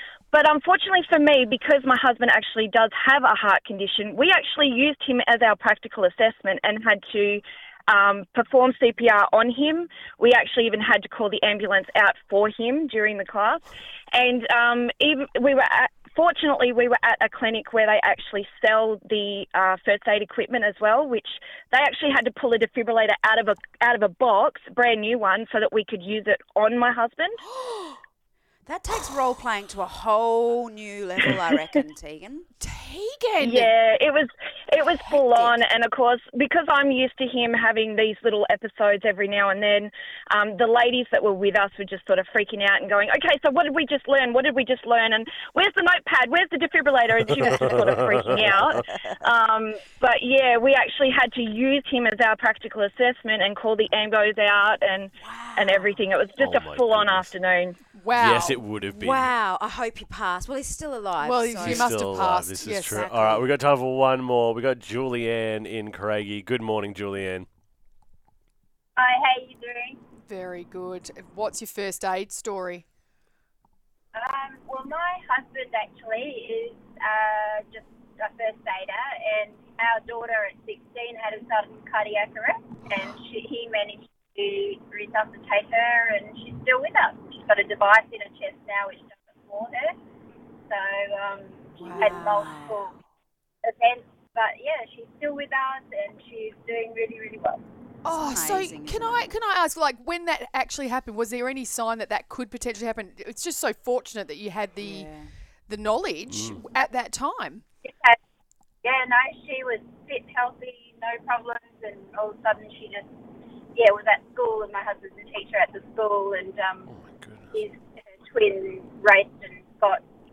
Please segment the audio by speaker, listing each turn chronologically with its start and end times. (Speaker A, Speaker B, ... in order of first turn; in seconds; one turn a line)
Speaker A: 0.3-27.4
Speaker B: 28.6-32.5
Speaker C: 32.6-33.7
Speaker A: 33.4-57.8
Speaker B: 34.8-35.6
Speaker B: 55.2-56.0
Speaker D: 56.4-57.3
Speaker C: 57.9-58.6
Speaker D: 58.1-59.3
Speaker B: 58.9-62.1
Speaker C: 61.2-63.0
Speaker D: 61.6-67.5
Speaker B: 62.9-63.5
Speaker E: 69.0-70.0
Speaker C: 70.3-72.8
Speaker E: 74.1-90.0
Speaker E: 90.7-93.0
Speaker C: 91.8-92.2
Speaker B: 91.9-92.9
Speaker E: 93.6-97.6
Speaker B: 98.0-99.3
Speaker C: 98.0-105.1
Speaker B: 104.8-105.3
Speaker C: 105.7-107.6
Speaker D: 106.3-106.6
Speaker E: 107.8-108.2
Speaker E: 108.8-113.1
Speaker E: 113.7-116.9
Speaker D: 116.8-117.5
Speaker E: 117.5-120.0